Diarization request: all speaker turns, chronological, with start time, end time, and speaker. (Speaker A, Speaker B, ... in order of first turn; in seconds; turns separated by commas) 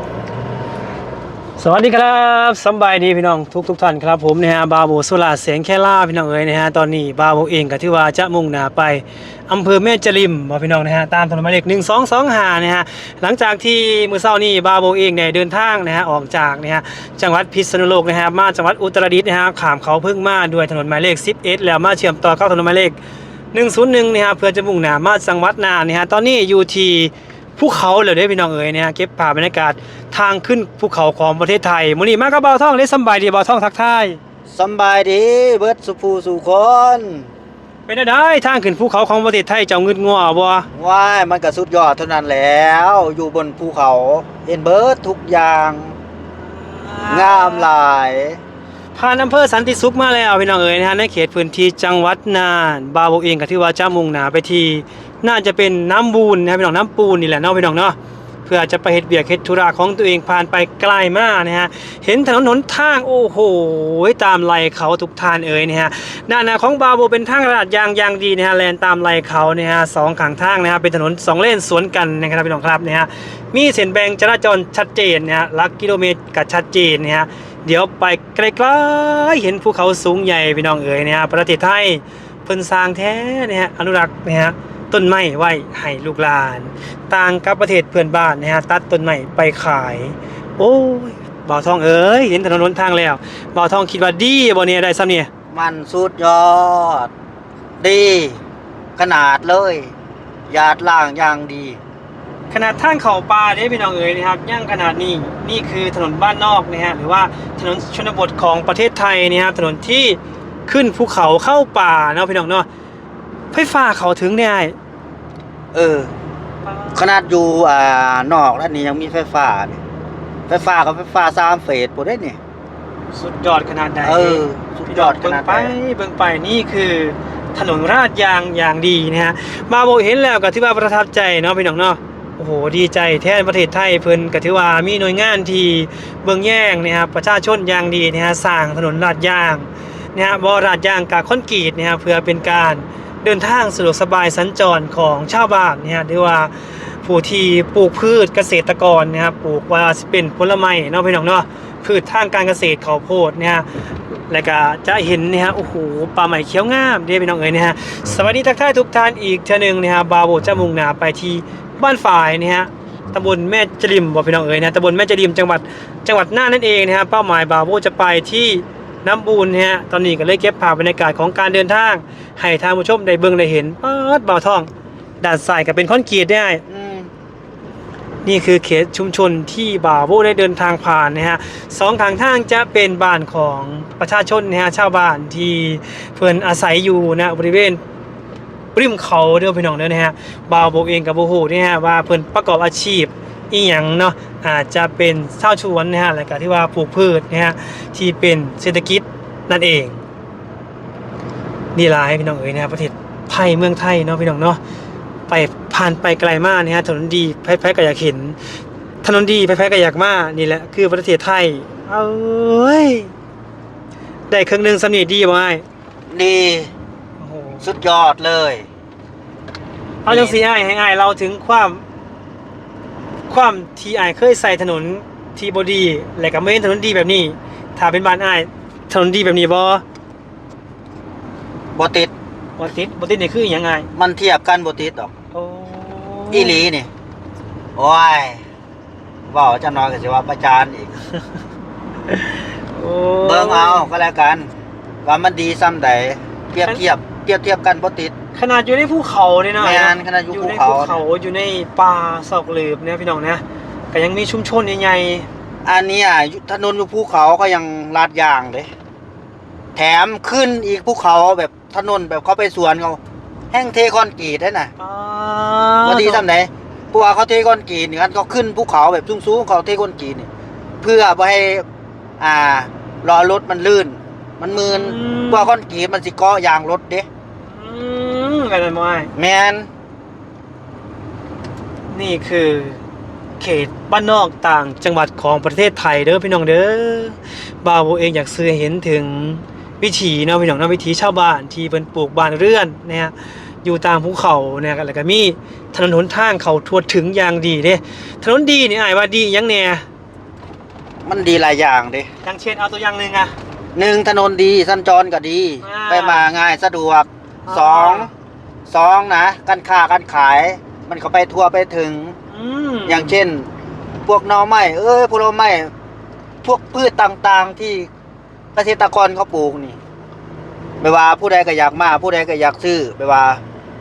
Speaker A: 1.6-23.0, Speaker A: 23.5-34.2, Speaker B: 34.5-37.3, Speaker A: 37.9-40.7, Speaker B: 40.7-46.0, Speaker A: 46.4-47.7, Speaker B: 47.1-48.4, Speaker A: 48.9-95.3, Speaker B: 95.5-97.1, Speaker B: 97.8-98.4, Speaker B: 99.0-99.9, Speaker B: 100.5-101.8, Speaker A: 102.5-112.7, Speaker A: 113.5-114.7, Speaker B: 115.7-116.1, Speaker A: 116.6-117.1, Speaker B: 116.9-119.8, Speaker B: 120.5-122.4, Speaker A: 123.1-153.7, Speaker B: 124.0-125.7, Speaker A: 154.3-174.7, Speaker A: 175.2-176.6, Speaker B: 176.7-177.1, Speaker A: 178.2-187.8, Speaker A: 188.7-200.0, Speaker A: 201.7-204.6, Speaker A: 205.3-208.4, Speaker A: 209.0-213.1, Speaker A: 214.3-215.6, Speaker B: 216.1-216.7, Speaker A: 217.2-217.7, Speaker B: 217.6-218.7, Speaker A: 220.0-221.8, Speaker B: 220.1-220.4, Speaker A: 223.3-229.8, Speaker B: 231.7-232.1, Speaker A: 232.6-233.9, Speaker B: 233.9-235.1, Speaker A: 235.3-236.6, Speaker B: 236.3-236.9, Speaker B: 237.8-238.4, Speaker B: 239.3-241.0, Speaker A: 242.1-243.9, Speaker B: 243.2-244.5, Speaker B: 245.0-248.1, Speaker A: 248.3-255.3, Speaker B: 249.6-251.0, Speaker B: 255.6-258.7, Speaker B: 259.7-263.0, Speaker B: 263.5-264.7, Speaker A: 264.8-266.2, Speaker B: 265.8-270.3, Speaker B: 270.8-271.6, Speaker B: 272.2-277.1, Speaker A: 274.6-275.5, Speaker A: 277.4-279.1, Speaker B: 279.1-279.7, Speaker A: 281.9-282.8, Speaker A: 283.4-299.8, Speaker B: 301.0-302.1, Speaker A: 302.2-303.3, Speaker B: 303.7-308.1, Speaker A: 305.6-306.2, Speaker A: 307.4-308.1, Speaker B: 308.7-312.2, Speaker A: 312.3-313.1, Speaker B: 312.9-313.5, Speaker B: 314.1-315.7, Speaker B: 316.4-317.9, Speaker B: 318.5-319.8, Speaker B: 320.8-323.4